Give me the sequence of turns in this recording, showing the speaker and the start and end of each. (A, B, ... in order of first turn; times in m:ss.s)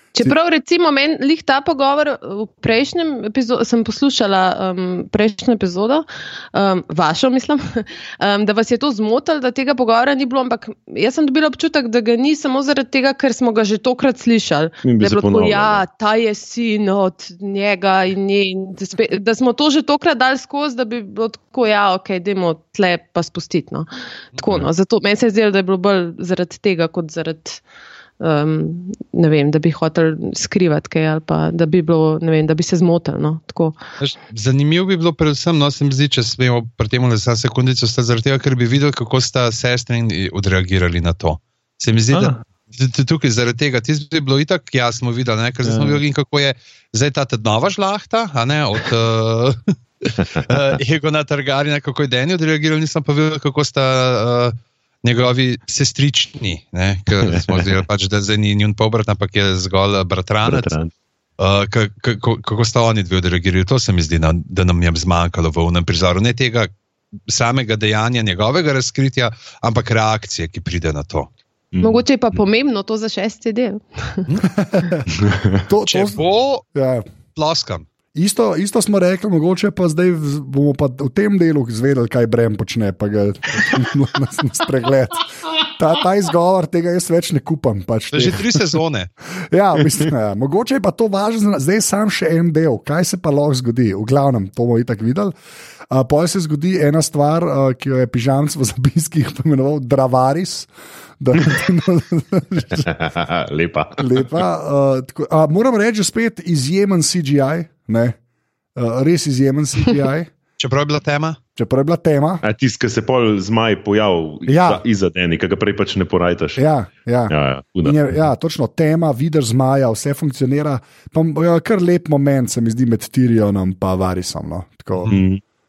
0:00.1-0:27.6 A
0:14.8-0:15.8 B
0:28.2-0:33.8 A
0:34.0-0:49.6 C
0:42.1-0:42.4 B
0:45.6-0:46.0 B
0:50.2-0:50.5 B
0:50.3-1:00.7 C
0:57.2-0:57.8 B
1:00.4-1:00.9 B
1:01.4-1:06.7 C
1:07.3-1:11.3 C
1:11.7-1:12.0 B
1:11.8-1:14.3 A
1:14.6-1:15.0 D
1:15.2-1:15.5 B
1:15.7-1:16.2 D
1:15.9-1:16.6 C
1:16.7-1:17.0 D
1:17.3-1:17.9 C
1:18.2-1:28.6 D
1:28.1-1:29.1 C
1:29.5-1:35.3 D
1:35.9-1:42.9 D
1:42.8-1:44.2 B
1:44.0-1:48.2 D
1:48.8-1:50.3 D
1:50.6-1:51.4 C
1:51.6-1:52.4 D
1:52.4-1:56.6 B
1:54.5-1:54.8 D
1:56.6-2:05.2 D
1:57.3-1:58.1 B
2:05.1-2:05.4 B